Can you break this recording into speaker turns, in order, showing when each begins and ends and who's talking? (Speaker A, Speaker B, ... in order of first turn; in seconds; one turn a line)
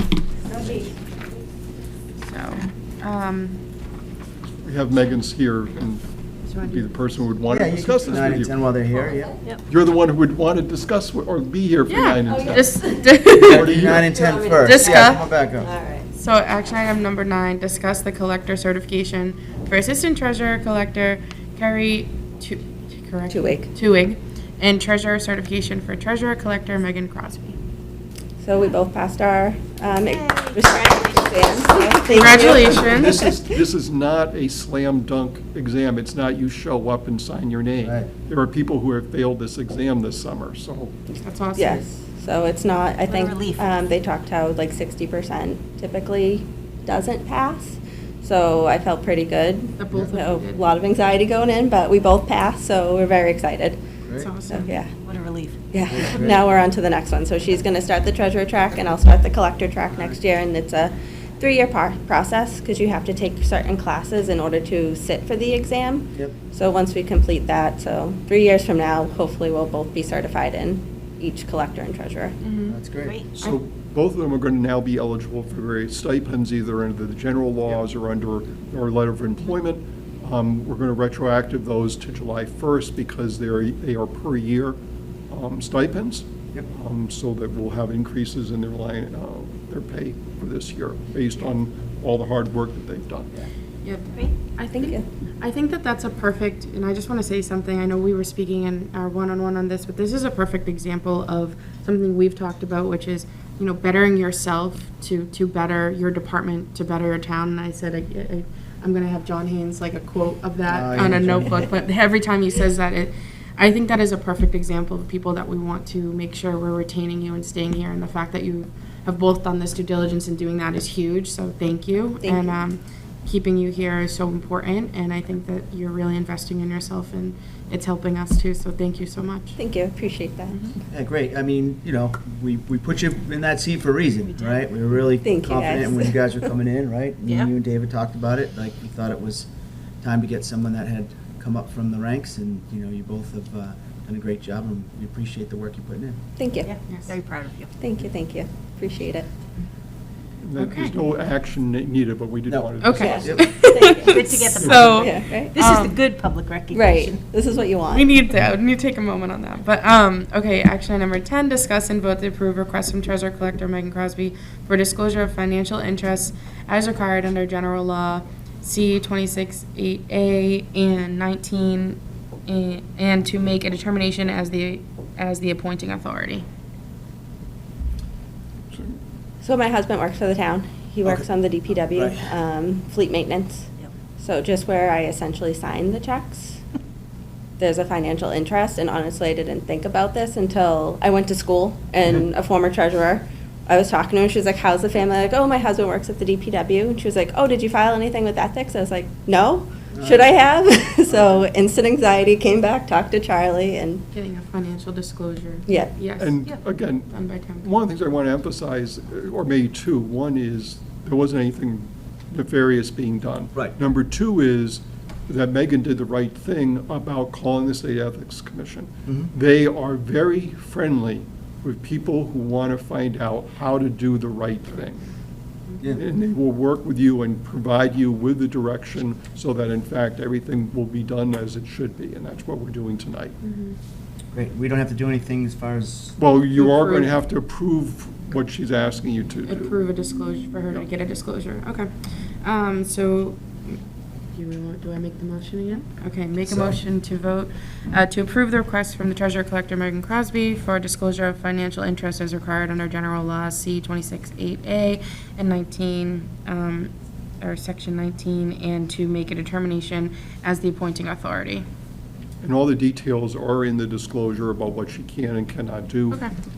Speaker A: 0.6-0.9
Speaker B: 2.2-3.6
Speaker C: 4.6-6.0
Speaker B: 6.5-7.3
Speaker C: 6.6-8.6
Speaker A: 7.5-9.3
Speaker D: 9.0-9.3
Speaker C: 9.7-12.8
Speaker B: 11.9-13.8
Speaker D: 12.3-13.3
Speaker A: 13.4-15.7
Speaker C: 13.5-14.1
Speaker D: 13.9-16.1
Speaker B: 14.6-15.3
Speaker B: 16.1-27.6
Speaker D: 23.3-23.7
Speaker D: 28.4-33.2
Speaker E: 30.0-32.3
Speaker B: 32.1-33.2
Speaker C: 32.2-40.9
Speaker A: 37.8-38.1
Speaker B: 41.2-41.8
Speaker D: 41.5-53.8
Speaker E: 43.1-43.7
Speaker B: 49.8-50.6
Speaker A: 54.0-54.3
Speaker B: 54.2-54.8
Speaker D: 54.5-54.9
Speaker E: 55.0-56.3
Speaker D: 55.7-72.3
Speaker A: 55.9-56.4
Speaker A: 59.9-60.2
Speaker B: 72.4-72.8
Speaker A: 72.7-73.2
Speaker E: 73.0-73.3
Speaker C: 73.3-84.8
Speaker C: 85.3-93.5
Speaker B: 93.8-129.6
Speaker D: 94.8-95.0
Speaker A: 110.7-111.7
Speaker D: 122.2-122.6
Speaker D: 129.6-130.7
Speaker B: 130.5-130.7
Speaker A: 130.9-139.5
Speaker D: 135.2-136.3
Speaker A: 140.0-146.2
Speaker D: 146.4-146.7
Speaker E: 146.6-147.8
Speaker B: 146.9-147.1
Speaker D: 147.8-149.3
Speaker C: 150.4-153.4
Speaker B: 150.6-151.0
Speaker A: 152.5-153.5
Speaker B: 152.8-156.0
Speaker D: 152.9-154.2
Speaker E: 154.0-157.2
Speaker C: 154.6-154.9
Speaker D: 154.9-155.6
Speaker D: 156.7-158.1
Speaker B: 157.9-176.4
Speaker D: 179.4-186.6
Speaker A: 181.9-182.3
Speaker D: 187.6-204.0
Speaker A: 199.9-200.4
Speaker A: 201.1-201.4
Speaker B: 204.1-206.4
Speaker D: 205.7-205.9
Speaker C: 206.2-225.1
Speaker B: 207.1-207.7
Speaker B: 225.7-226.0
Speaker C: 225.9-233.3
Speaker B: 233.4-233.8
Speaker A: 234.3-236.2
Speaker C: 236.2-239.8
Speaker B: 236.5-237.1
Speaker B: 239.4-241.9
Speaker B: 242.4-243.8
Speaker B: 244.3-261.6
Speaker A: 246.5-246.7
Speaker C: 262.4-266.3